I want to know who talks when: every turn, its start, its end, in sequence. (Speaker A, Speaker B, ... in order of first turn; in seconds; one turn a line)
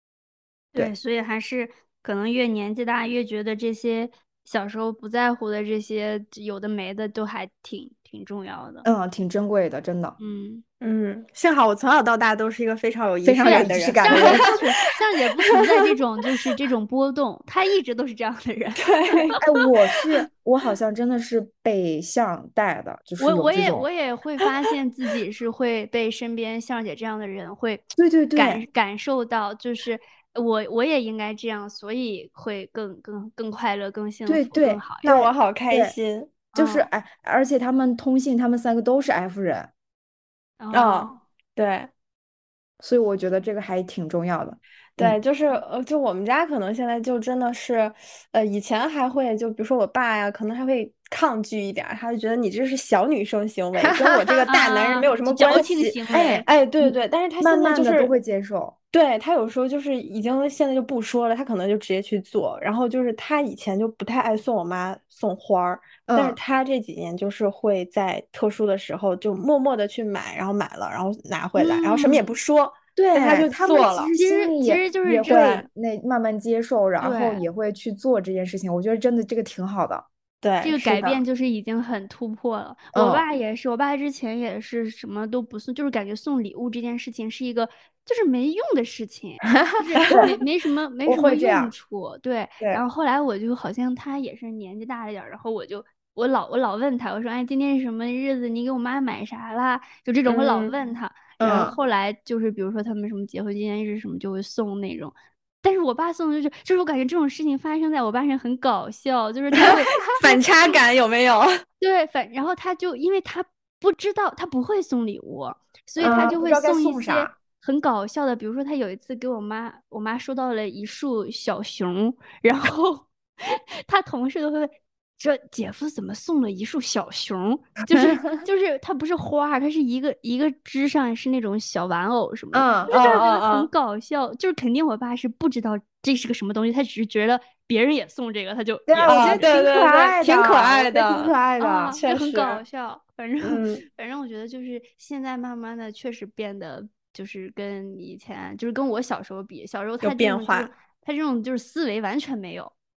Speaker A: 0.7-8.8
Speaker B: 8.8-10.2
Speaker A: 10.2-10.6
Speaker C: 10.8-14.5
Speaker B: 13.2-14.5
Speaker A: 13.4-19.3
Speaker C: 18.8-19.4
Speaker B: 19.4-23.9
Speaker A: 23.2-35.1
Speaker B: 27.9-28.6
Speaker B: 34.3-35.9
Speaker C: 35.0-36.3
Speaker A: 36.5-36.9
Speaker B: 36.5-39.7
Speaker A: 40.6-41.2
Speaker C: 40.7-41.9
Speaker B: 42.8-45.2
Speaker C: 45.0-58.1
Speaker B: 53.8-54.5
Speaker A: 54.5-56.5
Speaker B: 56.1-58.8
Speaker C: 58.9-74.1
Speaker B: 66.1-66.4
Speaker A: 71.6-72.3
Speaker B: 73.0-80.1
Speaker A: 74.2-75.5
Speaker C: 75.3-75.7
Speaker A: 77.0-77.4
Speaker C: 80.4-81.2
Speaker A: 80.6-109.9
Speaker B: 82.9-83.2
Speaker B: 89.5-90.3
Speaker B: 91.0-91.7
Speaker C: 100.3-100.7
Speaker B: 101.4-101.8
Speaker C: 109.6-111.5
Speaker B: 109.9-110.1
Speaker A: 111.8-139.6
Speaker B: 116.0-117.3
Speaker B: 128.0-128.4
Speaker B: 132.5-132.9
Speaker C: 132.9-133.7
Speaker B: 138.9-142.0
Speaker C: 139.1-141.3
Speaker A: 141.6-152.7
Speaker C: 141.9-142.6
Speaker C: 143.4-143.8
Speaker C: 150.0-150.7